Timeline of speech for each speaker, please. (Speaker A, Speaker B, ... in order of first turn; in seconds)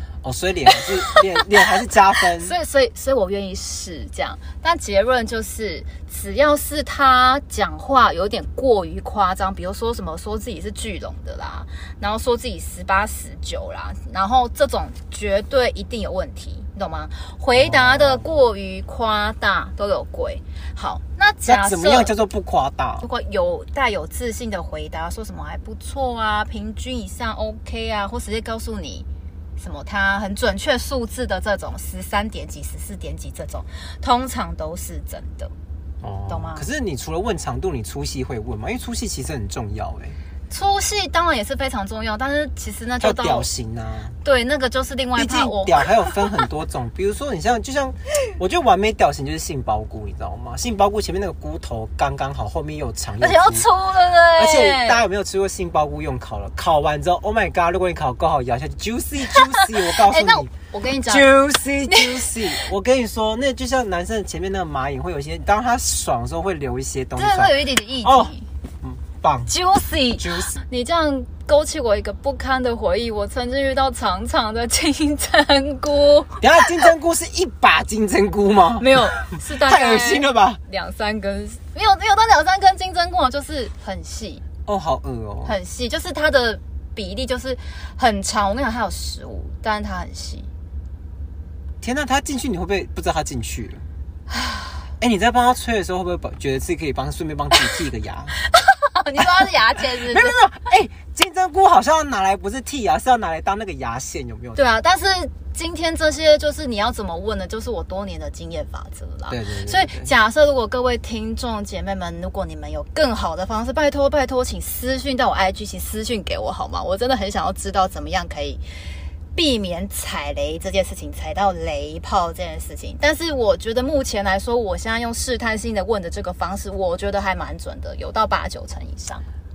Speaker A: 0.2-2.5, 17.5-18.3, 21.4-23.0, 36.0-40.2, 43.0-44.1, 45.1-53.7, 54.4-60.5, 61.1-69.5, 70.2-70.5, 76.4-79.1, 79.6-80.6, 84.7-85.5, 91.8-93.8, 95.0-98.3, 99.9-104.6, 109.3-110.1
Speaker B: 0.7-1.4, 2.4-22.1, 23.0-29.1, 29.6-35.5, 36.3-36.7, 40.5-43.5, 44.2-46.2, 53.2-55.0, 59.3-61.3, 61.9-62.3, 67.2-68.5, 69.5-76.7, 78.8-84.4, 85.4-90.5, 98.5-100.4, 104.5-118.6, 119.3-129.2